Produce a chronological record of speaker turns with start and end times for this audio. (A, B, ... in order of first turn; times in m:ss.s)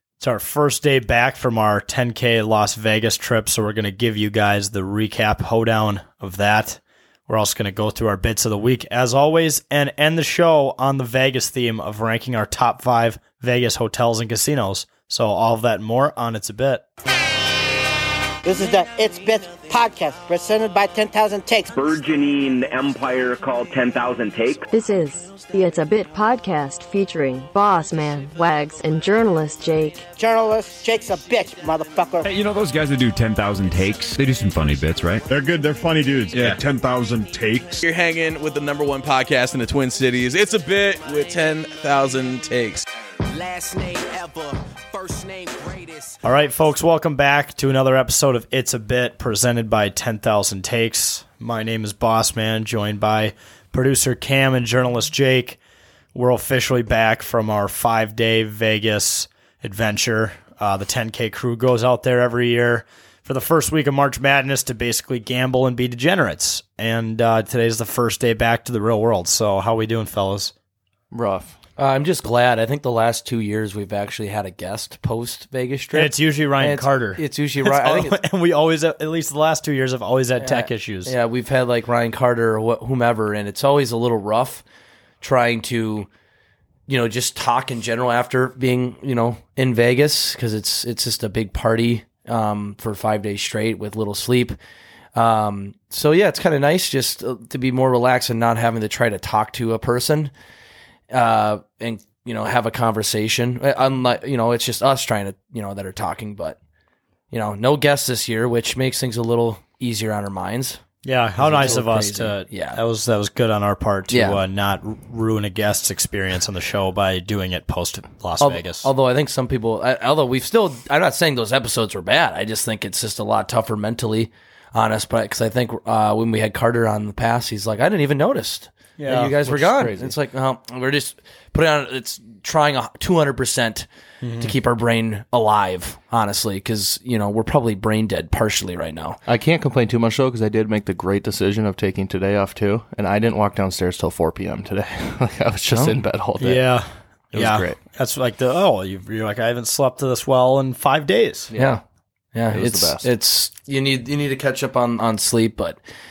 0:00.2-0:16.8 A
0:18.4-0:21.7 B
0:21.7-0:24.7 C
0:24.7-0:30.1 D
0:30.2-0:32.3 B
0:32.2-0:35.3 E
0:35.3-0:37.8 F
0:37.8-0:42.9 G
0:43.3-0:46.2 H
0:46.2-0:55.6 A
0:56.1-1:10.5 A
1:11.1-1:11.6 I
1:11.8-1:18.2 J
1:15.9-1:21.1 A
1:20.4-1:24.6 J
1:25.2-1:26.1 J
1:26.9-1:34.6 J
1:35.2-1:40.3 J
1:41.1-1:46.6 J
1:47.3-1:50.8 J
1:51.0-1:58.9 A
1:51.4-1:52.8 J
1:54.1-1:54.4 J
1:58.4-2:13.9 J
2:09.0-2:09.3 A
2:09.4-2:10.2 I
2:14.2-2:14.5 A
2:14.4-2:19.2 J
2:19.3-2:26.7 I
2:25.7-2:26.0 J
2:26.4-2:31.5 A
2:27.3-2:27.8 I
2:31.5-2:31.8 I
2:31.6-2:31.8 J
2:32.4-2:35.8 J
2:32.5-2:33.1 I